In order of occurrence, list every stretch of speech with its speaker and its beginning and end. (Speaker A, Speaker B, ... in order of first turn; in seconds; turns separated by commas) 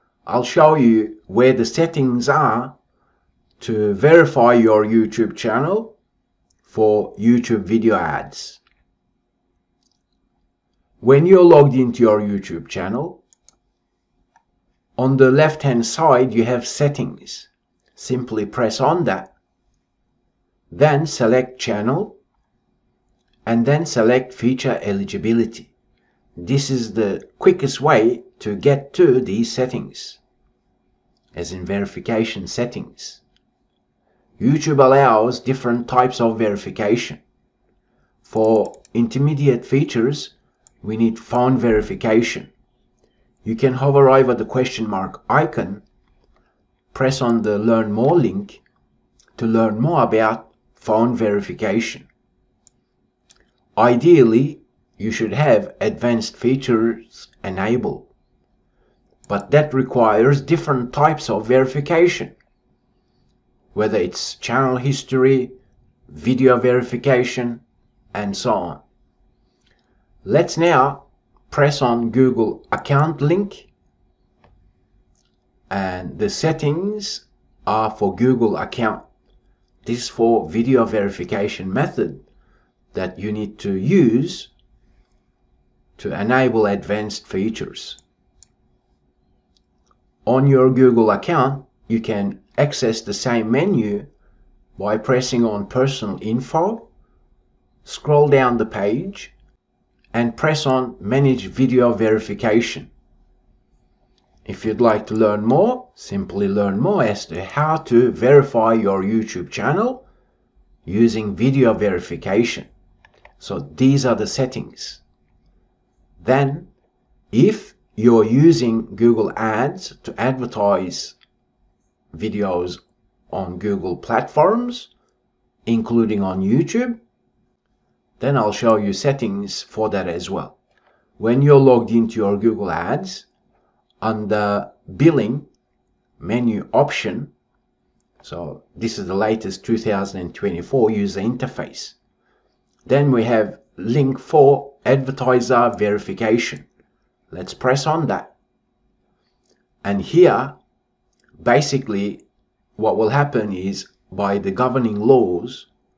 Speaker A: 0.3-2.7, Speaker A: 3.6-5.9, Speaker A: 6.7-8.6, Speaker A: 11.0-13.2, Speaker A: 15.0-19.3, Speaker A: 20.7-22.2, Speaker A: 23.5-25.7, Speaker A: 26.4-30.2, Speaker A: 31.3-33.2, Speaker A: 34.4-37.2, Speaker A: 38.2-42.5, Speaker A: 43.4-45.8, Speaker A: 46.9-48.6, Speaker A: 49.4-52.1, Speaker A: 53.8-58.1, Speaker A: 59.3-62.3, Speaker A: 63.7-65.5, Speaker A: 66.1-67.6, Speaker A: 68.1-68.8, Speaker A: 70.2-73.7, Speaker A: 75.7-79.0, Speaker A: 79.8-82.2, Speaker A: 82.9-84.5, Speaker A: 86.0-88.0, Speaker A: 90.3-94.1, Speaker A: 94.8-96.8, Speaker A: 97.8-99.3, Speaker A: 100.1-102.9, Speaker A: 104.5-110.1, Speaker A: 110.8-112.7, Speaker A: 113.4-115.0, Speaker A: 116.2-116.7, Speaker A: 117.3-121.2, Speaker A: 122.1-124.9, Speaker A: 125.7-127.0, Speaker A: 128.2-130.6, Speaker A: 131.2-133.3, Speaker A: 134.0-135.5, Speaker A: 136.2-137.3, Speaker A: 138.2-142.0, Speaker A: 142.9-146.7, Speaker A: 147.3-148.3, Speaker A: 149.8-150.6, Speaker A: 151.4-152.2, Speaker A: 152.8-155.7